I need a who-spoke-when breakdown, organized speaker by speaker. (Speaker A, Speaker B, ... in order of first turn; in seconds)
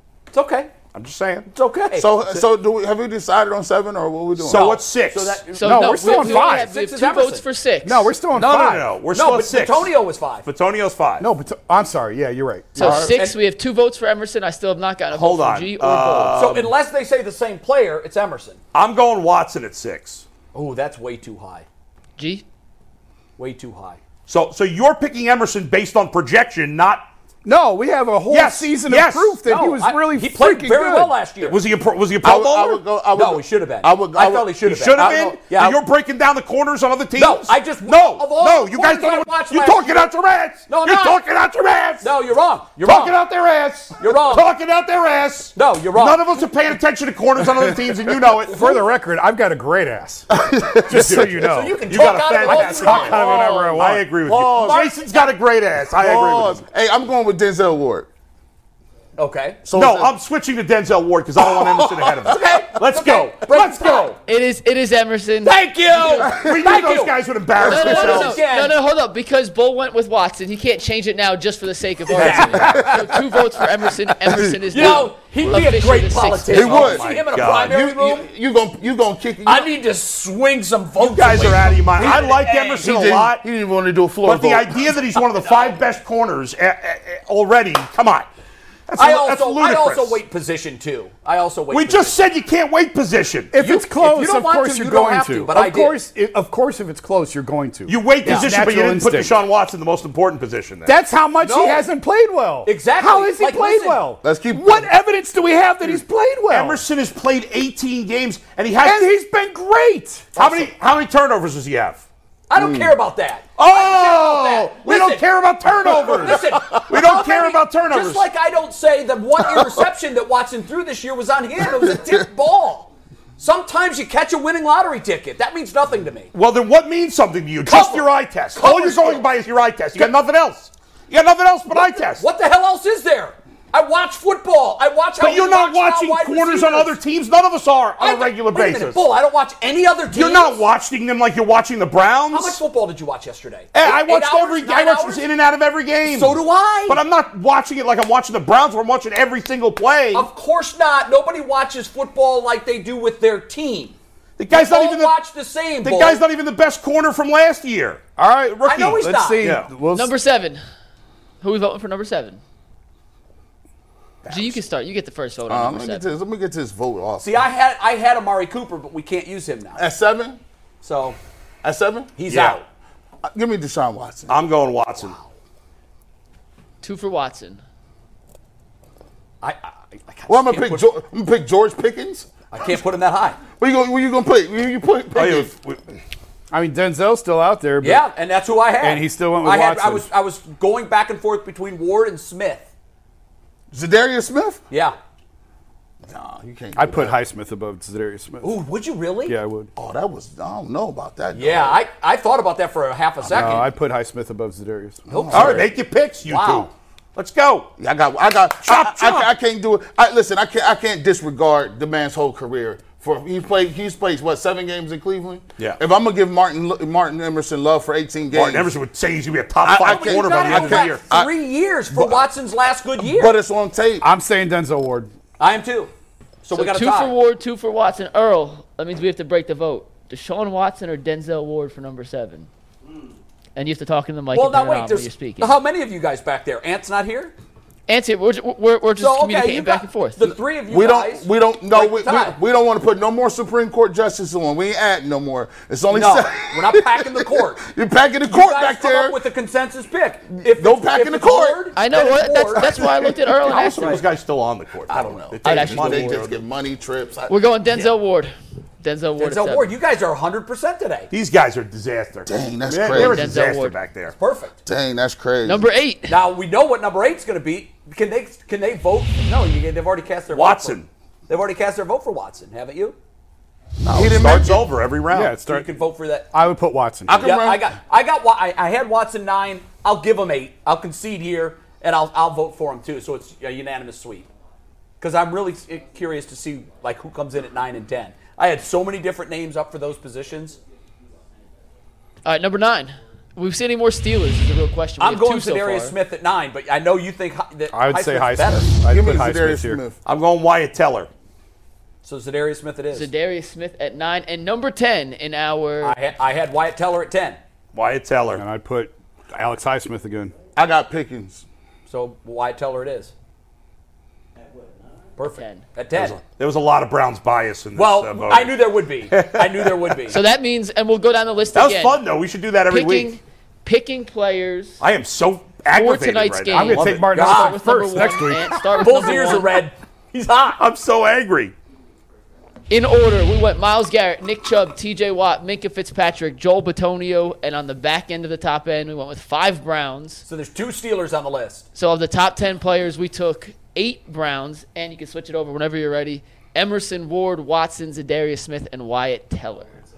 Speaker A: 0.3-0.7, 1.5-2.2, 4.5-7.5, 8.4-10.5, 12.8-13.4, 16.3-18.6, 20.5-21.6, 23.4-24.0, 29.4-31.6, 33.1-35.8, 37.1-40.1, 40.7-41.2, 42.0-43.2, 44.0-44.5, 45.5-46.3, 48.5-48.8, 51.4-55.1, 59.2-59.6, 62.2-64.2, 65.4-68.8, 72.1-73.1, 74.7-78.3, 79.4-82.9, 85.4-85.8, 89.0-92.2, 93.5-96.0, 98.2-98.5, 101.4-101.9, 102.6-104.1, 110.4-110.7, 112.5-115.2, 115.9-126.3, 127.6-129.3, 131.7-136.9, 138.0-140.6, 142.3-145.2, 146.1-147.0, 150.1-154.0, 154.5-156.2, 158.6-159.5, 167.2-169.8, 170.8-171.2, 172.2-172.6, 175.0-175.3, 179.4-180.8, 182.5-183.4, 187.8-192.7, 194.7-194.9, 198.4-199.3, 201.3-203.7, 205.1-206.7, 219.8-223.3, 225.4-225.9, 226.4-227.1, 234.3-237.3, 239.0-242.4, 245.9-247.6, 248.3-252.9, 253.5-254.0, 259.2-261.1, 264.1-264.6, 266.1-273.0, 275.3-276.3, 277.1-284.3, 285.0-290.6, 295.0-298.8, 302.0-303.1, 305.8-307.4, 311.9-313.1, 315.2-316.2, 317.7-320.2, 327.1-327.6, 328.8-330.6, 340.2-341.6
Speaker B: 0.9-1.5, 4.4-5.4, 8.3-11.3, 15.1-16.7, 18.7-20.2, 24.3-27.1, 28.3-29.4, 31.4-32.8, 34.6-42.1, 42.8-48.7, 50.9-56.6, 59.7-64.1, 66.1-68.4, 76.5-77.8, 81.0-83.4, 84.2-88.3, 88.9-90.2, 91.7-93.5, 97.9-101.0, 106.5-109.1, 110.3-112.0, 113.6-118.2, 126.3-132.2, 135.2-139.0, 140.1-142.6, 143.7-150.3, 154.4-155.2, 155.8-158.0, 158.6-159.7, 164.2-164.6, 172.3-172.6, 174.3-175.1, 185.1-185.8, 205.3-207.7, 208.6-209.3, 218.3-221.1, 253.4-256.3, 261.1-264.1, 270.3-270.9, 273.8-275.4, 300.0-301.1, 307.7-308.4, 315.9-320.0, 321.5-323.1, 324.8-327.2, 330.6-331.5
Speaker C: 1.9-4.7, 32.2-34.5, 50.3-51.5, 53.2-54.9, 56.0-58.1, 59.6-60.1, 72.2-73.3, 74.2-75.0, 76.5-79.7, 82.7-84.9, 104.2-104.9, 112.5-113.0, 121.8-122.2, 165.5-167.4, 169.8-170.4, 171.6-172.1, 173.3-174.4, 180.3-182.4, 183.5-185.5, 193.7-194.6, 196.1-197.2, 199.8-201.8, 203.2-203.6, 205.1-205.7, 207.8-218.7, 219.6-221.3, 221.9-222.2, 223.0-224.1, 240.7-249.2, 250.3-251.7, 252.7-253.1, 254.9-257.3, 262.2-263.3, 264.6-265.7, 273.8-274.7, 277.1-277.7, 298.9-300.0, 310.6-311.4
Speaker D: 5.5-8.1, 12.8-16.4, 22.2-22.4, 64.2-65.6, 67.6-76.8, 159.9-160.6, 161.4-162.4, 164.3-166.1, 176.8-177.6, 226.5-232.5, 233.6-235.5, 237.9-240.3, 251.8-254.0, 255.4-256.2, 257.3-259.7, 262.9-263.8, 265.4-266.2, 292.2-295.9, 302.9-306.0, 315.3-315.6, 320.1-322.0, 322.7-324.8, 325.7-329.6, 332.7-340.2, 341.7-349.7
Speaker E: 5.6-6.7, 7.8-8.9, 11.2-13.1, 27.4-31.1, 47.4-51.8, 52.4-54.1, 93.5-99.4, 100.9-106.8, 108.8-110.4, 158.2-160.1, 186.5-188.1, 188.8-190.1, 196.7-198.6, 199.3-199.7, 203.3-205.0, 224.0-225.1, 275.1-275.7, 276.3-277.3, 297.7-299.8, 308.3-310.3, 326.5-328.8